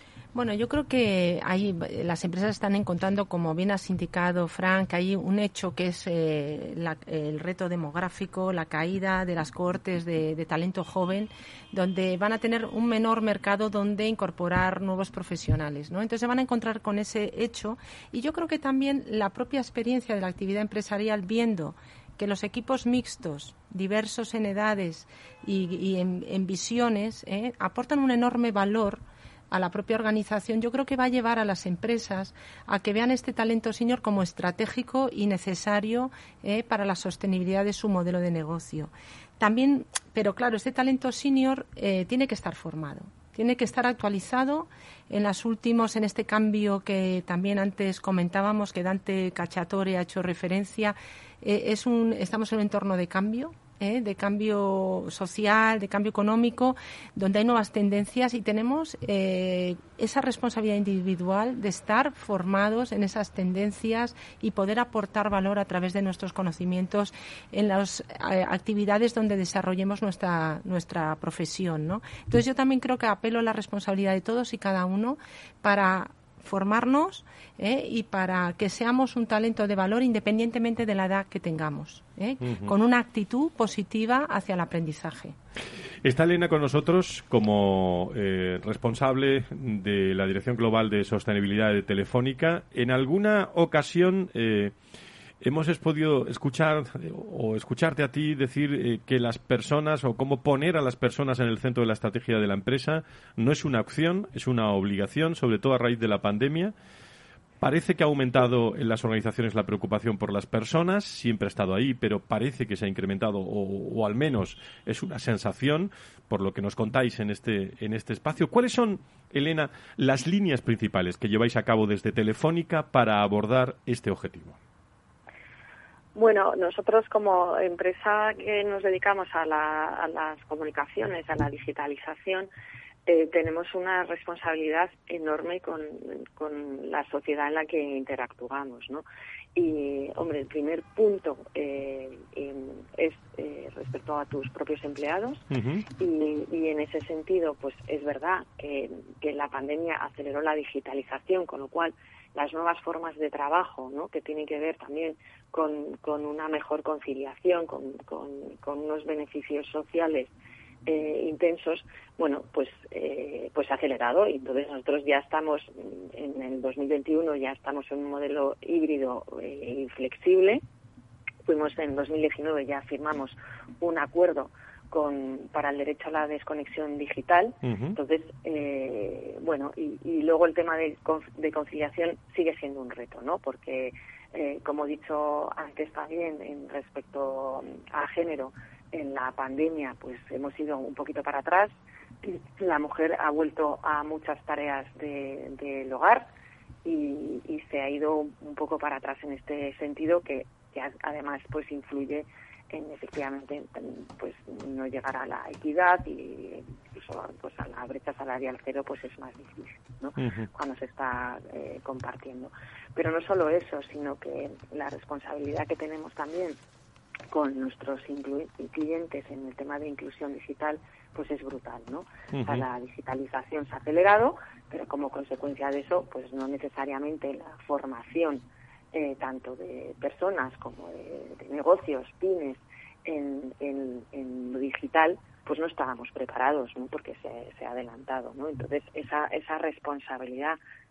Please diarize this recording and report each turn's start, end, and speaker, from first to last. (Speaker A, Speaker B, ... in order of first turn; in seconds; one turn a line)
Speaker A: 0.3-85.3
Speaker B: 82.4-82.7
Speaker B: 86.0-94.8
Speaker B: 95.4-106.7
Speaker B: 107.6-124.5
Speaker C: 126.1-132.5
Speaker C: 133.1-139.0
Speaker C: 139.6-145.4
Speaker B: 145.5-145.8
Speaker C: 146.0-160.3
Speaker C: 160.9-170.6
Speaker C: 171.4-191.7
Speaker B: 177.6-178.0
Speaker C: 192.2-196.2
Speaker C: 196.8-216.6
Speaker B: 210.2-210.5
Speaker C: 217.3-240.6
Speaker B: 222.3-222.7